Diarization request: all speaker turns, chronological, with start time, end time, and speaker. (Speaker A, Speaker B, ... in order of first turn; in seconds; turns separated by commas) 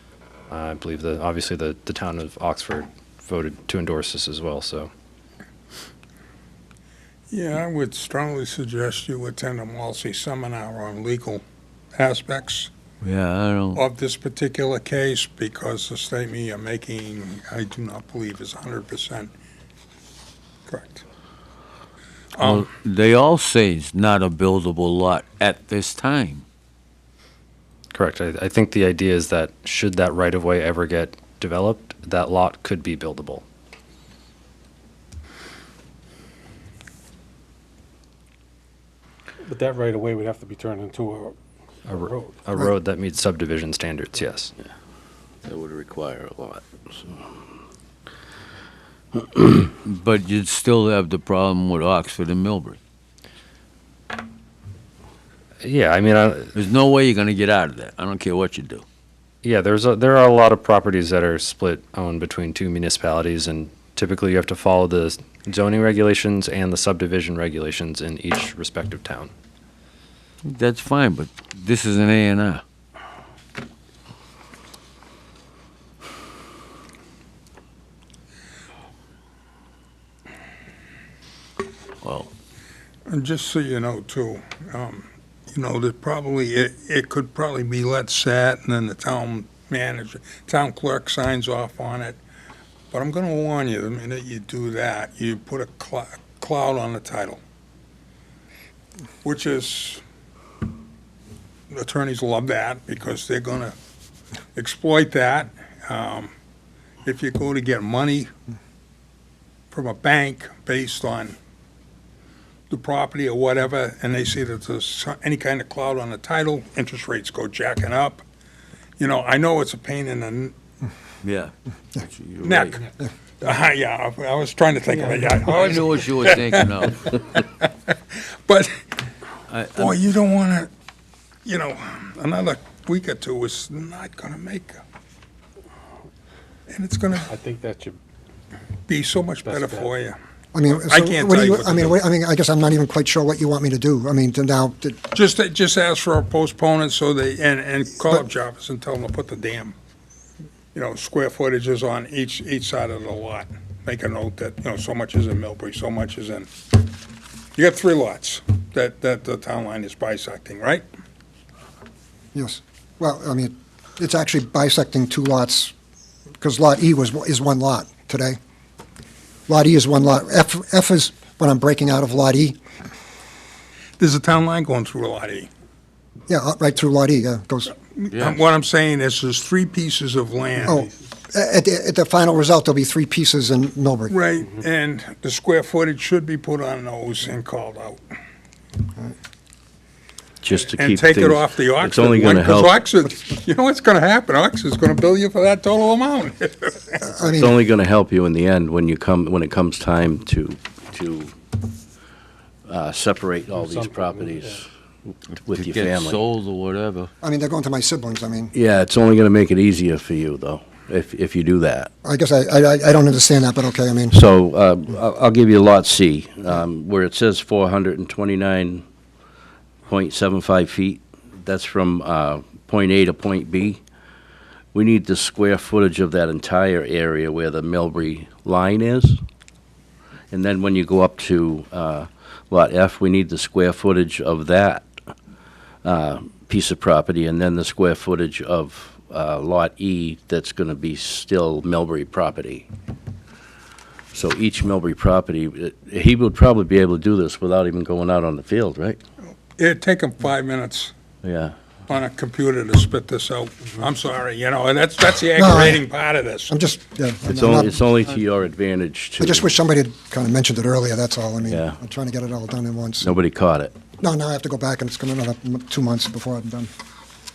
Speaker A: 0.5-4.9, Speaker B: 7.3-11.4, Speaker B: 11.9-12.7, Speaker C: 13.0-13.8, Speaker B: 13.7-19.3, Speaker B: 20.7-21.0, Speaker B: 22.4-22.7, Speaker C: 22.4-26.4, Speaker A: 27.9-33.4, Speaker D: 39.4-41.4, Speaker A: 41.9-44.5, Speaker D: 41.9-42.2, Speaker E: 45.5-47.1, Speaker C: 49.8-52.8, Speaker A: 55.6-56.5, Speaker C: 56.5-58.8, Speaker A: 59.4-69.3, Speaker C: 70.4-72.6, Speaker C: 82.0-82.3, Speaker B: 83.1-92.2, Speaker B: 92.9-97.4, Speaker B: 99.2-100.0, Speaker B: 101.7-103.8, Speaker B: 104.5-106.3, Speaker B: 107.0-108.3, Speaker B: 109.7-111.3, Speaker B: 112.7-118.2, Speaker B: 119.0-120.5, Speaker C: 121.2-122.8, Speaker B: 122.4-122.8, Speaker B: 123.4-128.8, Speaker C: 125.4-127.1, Speaker C: 129.5-130.0, Speaker B: 129.8-130.7, Speaker B: 131.4-134.8, Speaker B: 136.7-137.3, Speaker D: 137.3-138.0, Speaker B: 138.9-140.2, Speaker D: 139.4-139.9, Speaker F: 140.5-145.0, Speaker B: 140.7-142.0, Speaker B: 145.1-149.7, Speaker B: 150.7-156.5, Speaker B: 157.6-160.8, Speaker F: 162.3-165.7, Speaker F: 166.4-168.4, Speaker F: 169.5-172.6, Speaker B: 174.0-175.5, Speaker F: 176.3-177.7, Speaker B: 178.0-180.9, Speaker C: 178.1-178.4, Speaker F: 180.6-184.2, Speaker B: 184.1-188.0, Speaker E: 190.4-192.8, Speaker B: 190.7-197.0, Speaker F: 197.0-197.5, Speaker E: 197.3-201.3, Speaker E: 202.7-204.7, Speaker D: 203.6-204.4, Speaker E: 205.4-206.2, Speaker C: 205.5-207.1, Speaker F: 207.2-208.5, Speaker E: 208.5-211.9, Speaker F: 212.0-214.2, Speaker E: 214.1-218.8, Speaker E: 219.9-223.8, Speaker E: 224.7-229.2, Speaker E: 230.3-234.9, Speaker E: 235.8-242.7, Speaker E: 244.1-249.0, Speaker B: 249.6-250.9, Speaker E: 251.2-251.5, Speaker B: 251.9-256.5, Speaker F: 255.3-255.8, Speaker F: 256.5-257.8, Speaker E: 257.3-259.5, Speaker F: 259.2-263.1, Speaker E: 261.5-261.8, Speaker E: 263.0-263.8, Speaker F: 264.0-266.7